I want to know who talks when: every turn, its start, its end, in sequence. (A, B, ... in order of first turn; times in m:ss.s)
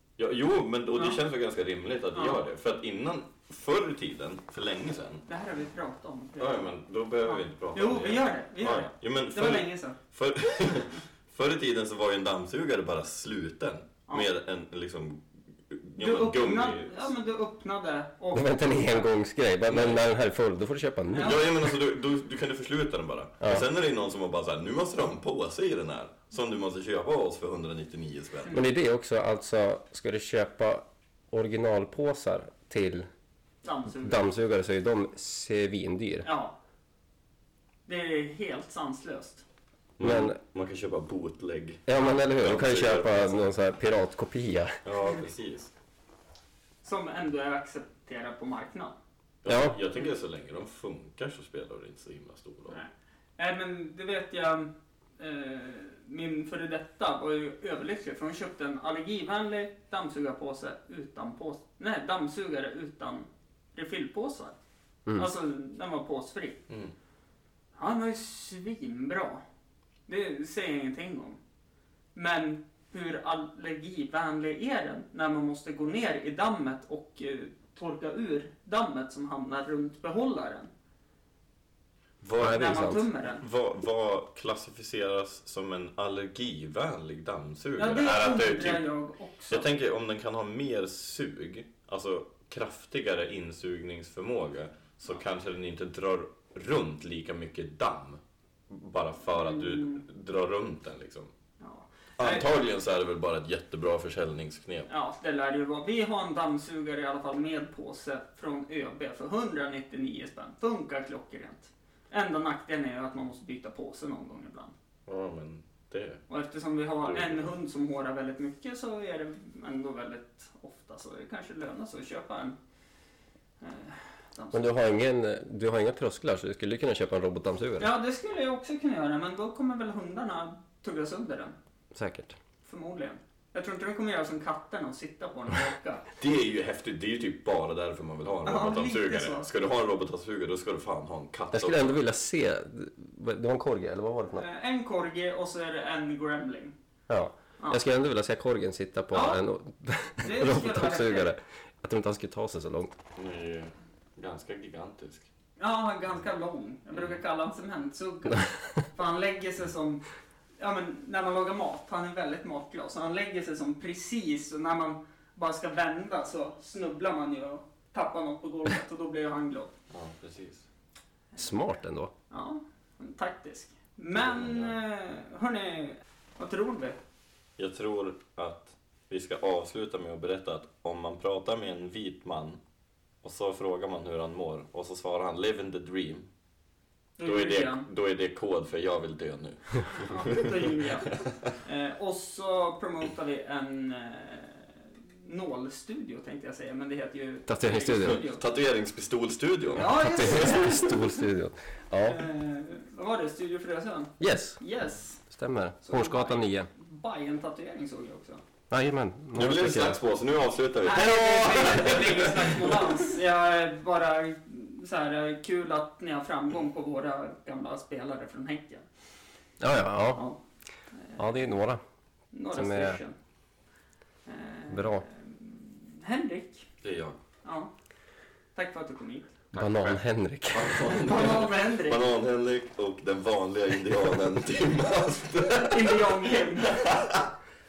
0:00.2-0:05.3 A
0:00.9-0:01.2 B
0:02.1-0:02.4 B
0:05.3-0:06.7 B
0:06.4-0:17.1 A
0:07.2-0:10.0 B
0:16.0-0:19.1 B
0:18.3-0:21.5 C
0:19.7-0:20.0 A
0:21.1-0:21.5 B
0:21.2-0:28.6 A
0:28.5-0:33.1 C
0:33.6-0:34.2 B
0:34.0-0:36.3 C
0:36.2-0:36.6 B
0:37.9-0:39.4 B
0:40.0-0:43.5 A
0:40.0-0:40.4 C
0:41.9-0:44.8 C
0:44.8-0:45.7 A
0:46.8-0:49.0 B
0:49.4-0:52.8 A
0:49.5-0:49.8 C
0:52.7-1:04.6 B
1:05.2-1:06.6 B
1:07.8-1:09.4 B
1:10.1-1:11.4 B
1:12.1-1:20.7 B
1:22.2-1:28.8 A
1:22.4-1:23.0 C
1:22.5-1:23.4 B
1:27.8-1:29.6 B
1:29.5-1:41.3 A
1:39.3-1:40.0 B
1:41.6-1:42.6 B
1:42.2-1:44.9 A
1:44.9-1:54.7 B
1:55.1-1:56.2 A
1:56.3-2:02.6 B
1:57.0-1:57.5 A
2:03.6-2:04.7 B
2:04.5-2:07.9 C
2:07.8-2:11.6 B
2:11.9-2:12.4 C
2:12.6-2:16.1 B
2:16.2-2:22.0 A
2:18.5-2:19.5 B
2:21.5-2:24.5 C
2:24.4-2:26.7 B
2:27.1-2:33.0 C
2:29.1-2:29.4 B
2:30.2-2:31.3 B
2:33.2-2:35.3 A
2:35.6-2:40.1 B
2:36.9-2:37.2 A
2:40.6-2:49.8 B
2:49.9-2:50.7 A
2:51.4-2:52.1 C
2:52.3-2:57.0 B
2:54.2-2:54.8 A
2:57.6-3:02.6 A
3:03.2-3:06.3 A
3:07.2-3:07.9 B
3:07.2-3:11.6 A
3:10.0-3:11.1 B
3:11.6-3:18.4 B
3:17.5-3:18.2 C
3:18.0-3:20.9 A
3:19.7-3:21.2 B
3:20.0-3:22.3 C
3:22.1-3:25.2 B
3:24.2-3:24.6 C
3:25.3-3:26.7 C
3:25.8-3:28.4 B
3:28.7-3:30.0 C
3:29.4-3:33.0 A
3:30.9-3:38.9 B
3:39.6-3:40.3 C
3:40.9-3:41.2 B
3:41.2-3:41.8 C
3:42.3-3:43.2 B
3:42.5-3:43.0 C
3:44.3-3:46.7 B
3:44.7-3:45.0 C
3:46.8-3:47.2 A
3:47.4-3:47.7 B
3:48.6-3:49.4 B
3:49.5-3:50.9 C
3:49.5-3:57.3 A
3:50.9-3:52.1 B
3:55.6-3:56.8 B